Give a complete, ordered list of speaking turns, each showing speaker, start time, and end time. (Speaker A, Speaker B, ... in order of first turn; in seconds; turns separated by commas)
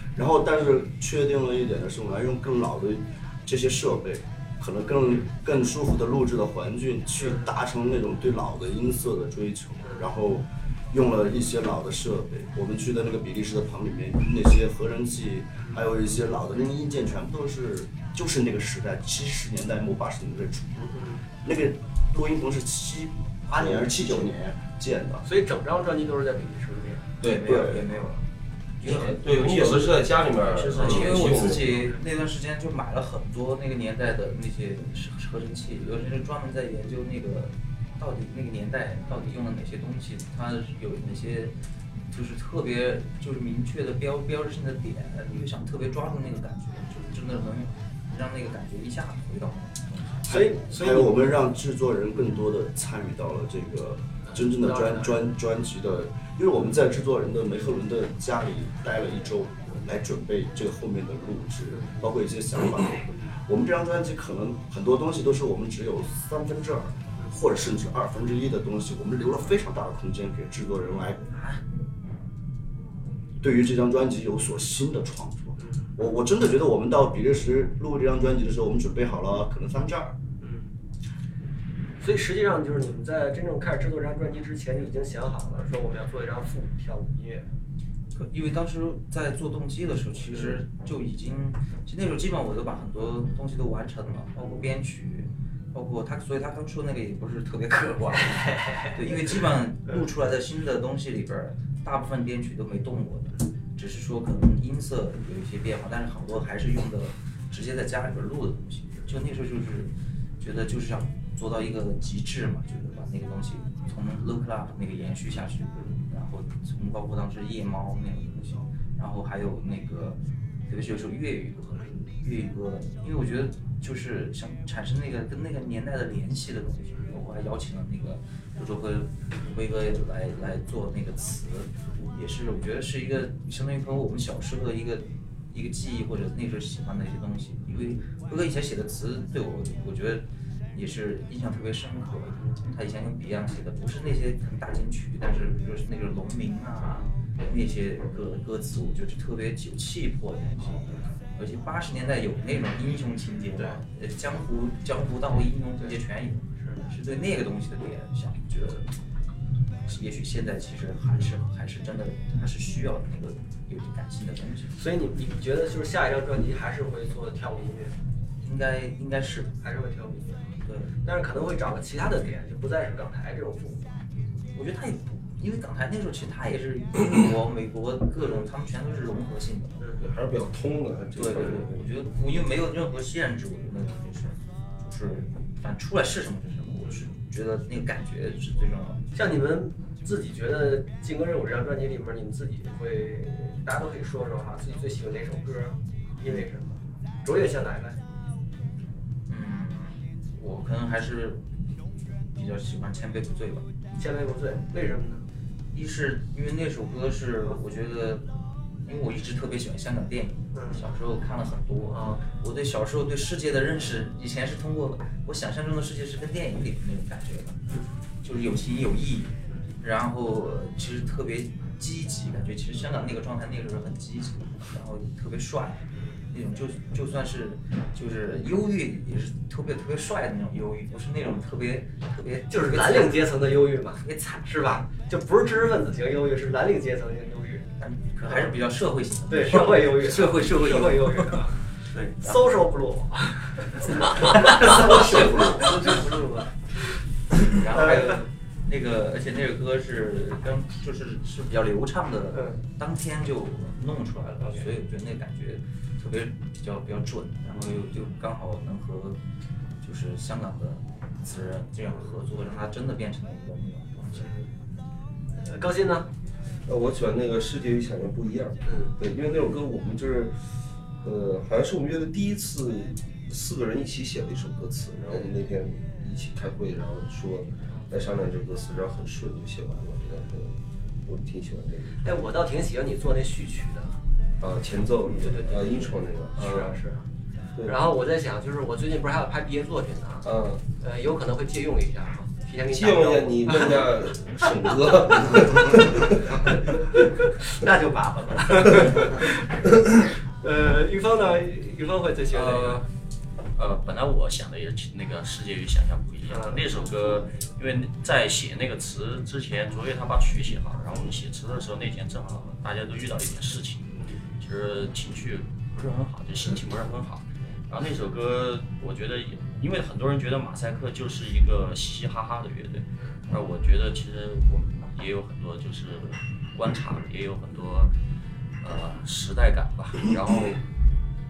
Speaker A: 0.2-25.3, Speaker B: 7.2-7.5, Speaker B: 9.8-10.1, Speaker B: 20.9-21.3, Speaker C: 23.5-23.9, Speaker B: 25.2-27.1, Speaker D: 27.2-27.9, Speaker C: 27.2-28.2, Speaker D: 28.8-31.9, Speaker C: 28.8-29.2, Speaker E: 29.1-31.6, Speaker C: 30.8-41.5, Speaker B: 31.7-32.0, Speaker C: 42.1-50.3, Speaker B: 50.2-51.4, Speaker A: 50.3-71.2, Speaker B: 54.3-55.2, Speaker B: 61.7-62.0, Speaker A: 73.4-80.2, Speaker B: 75.6-75.9, Speaker B: 80.4-80.7, Speaker B: 82.0-87.5, Speaker C: 88.2-158.9, Speaker B: 90.3-90.6, Speaker B: 98.3-98.9, Speaker B: 115.7-116.0, Speaker B: 121.8-122.1, Speaker B: 156.6-156.8, Speaker C: 159.9-164.8, Speaker B: 164.7-167.9, Speaker C: 168.4-169.6, Speaker B: 169.6-170.5, Speaker C: 170.6-170.9, Speaker B: 171.0-174.0, Speaker C: 174.5-179.8, Speaker B: 178.2-178.5, Speaker B: 179.8-180.1, Speaker D: 180.0-181.9, Speaker C: 181.2-189.1, Speaker B: 189.1-198.0, Speaker C: 199.3-201.4, Speaker C: 202.3-203.7, Speaker B: 203.9-205.3, Speaker C: 205.7-217.6, Speaker B: 210.5-210.8, Speaker B: 211.9-212.2, Speaker C: 218.2-234.8, Speaker B: 225.9-226.2, Speaker B: 232.5-237.7, Speaker C: 237.8-242.4, Speaker B: 238.2-238.5, Speaker B: 239.3-246.2, Speaker C: 243.8-246.5, Speaker A: 244.9-245.8, Speaker C: 247.4-259.2, Speaker B: 247.7-248.1, Speaker B: 252.3-252.6, Speaker B: 254.4-254.7, Speaker C: 259.8-264.3, Speaker B: 264.2-264.5, Speaker B: 265.4-266.1, Speaker D: 266.6-270.5, Speaker B: 268.7-268.9, Speaker D: 271.0-282.0, Speaker B: 282.0-284.0, Speaker D: 284.4-286.8, Speaker B: 285.2-287.1, Speaker B: 287.6-294.6, Speaker D: 290.2-290.6, Speaker D: 292.7-296.5, Speaker B: 295.1-299.7, Speaker B: 300.3-302.9, Speaker E: 302.3-302.8, Speaker E: 303.6-327.9, Speaker B: 306.3-306.6, Speaker B: 313.9-314.2, Speaker E: 328.6-330.7